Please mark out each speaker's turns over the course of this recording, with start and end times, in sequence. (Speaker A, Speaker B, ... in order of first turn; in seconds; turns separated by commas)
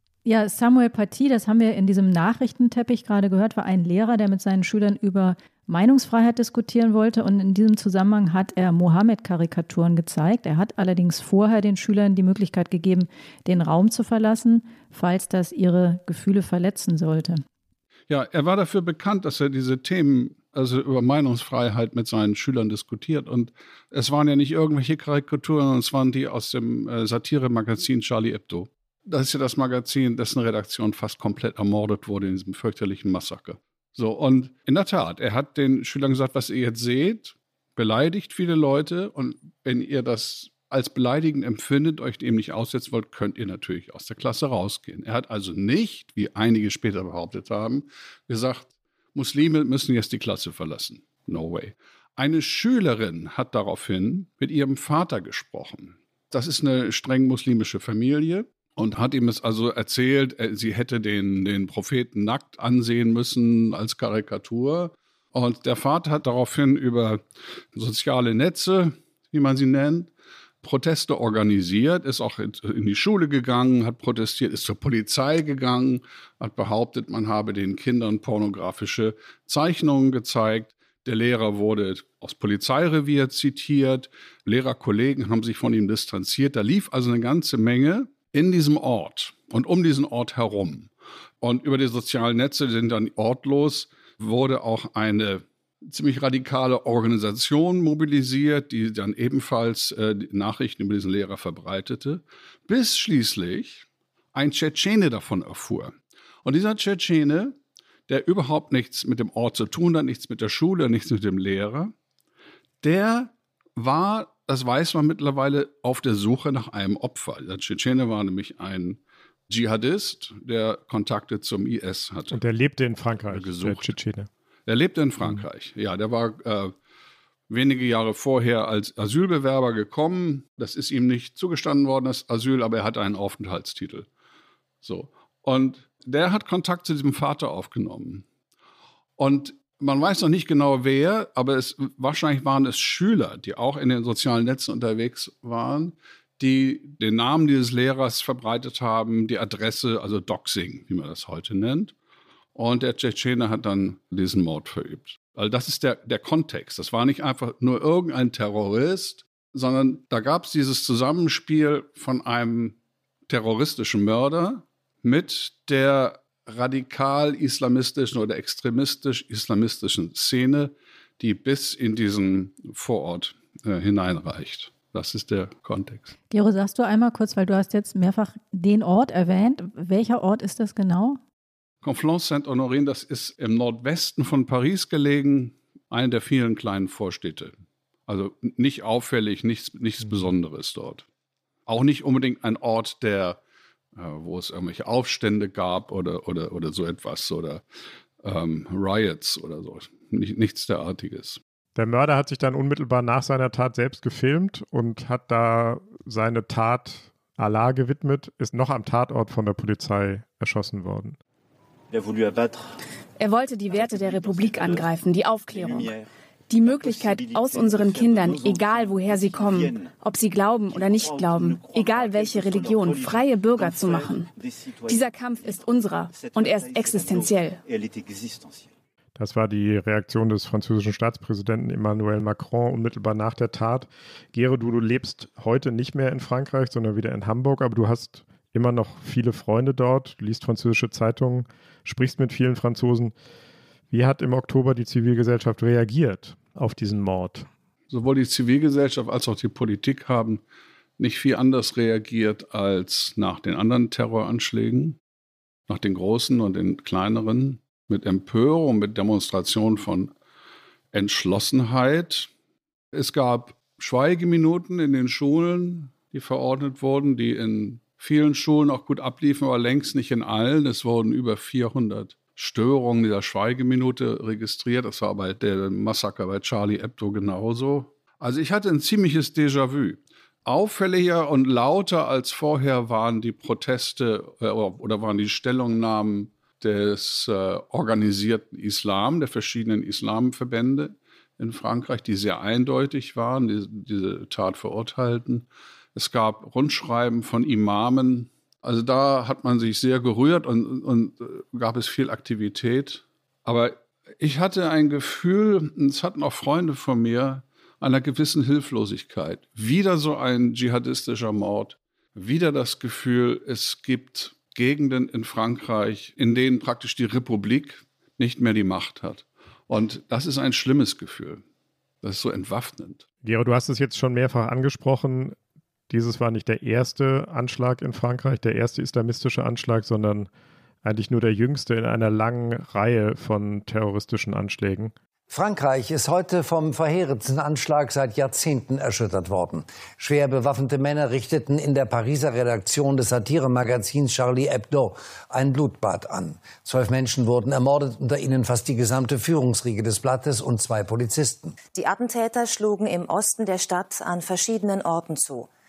Speaker A: 0.2-17.4, Speaker B: 18.1-67.2, Speaker B: 67.7-70.1, Speaker B: 70.6-90.9, Speaker B: 91.4-107.5, Speaker B: 108.1-111.9, Speaker B: 112.8-122.4, Speaker C: 122.3-124.3, Speaker B: 123.3-123.9, Speaker B: 124.7-126.7, Speaker B: 127.5-134.1, Speaker B: 134.8-138.2, Speaker B: 139.2-151.9, Speaker B: 152.5-162.8, Speaker B: 163.3-176.1, Speaker A: 176.3-181.2, Speaker B: 181.8-187.5, Speaker B: 188.1-191.0, Speaker B: 191.7-193.4, Speaker B: 193.9-197.6, Speaker B: 198.2-201.4, Speaker C: 201.8-211.2, Speaker D: 213.2-215.9, Speaker D: 216.5-224.3, Speaker D: 224.8-227.6, Speaker C: 229.2-243.1, Speaker C: 243.9-247.5, Speaker B: 247.9-250.4, Speaker B: 251.0-255.0, Speaker B: 255.7-260.1, Speaker B: 260.9-262.3, Speaker B: 262.9-321.4, Speaker B: 322.0-323.0, Speaker C: 323.2-325.4, Speaker C: 325.9-330.3, Speaker C: 330.8-334.9, Speaker E: 335.3-351.6, Speaker F: 351.7-355.5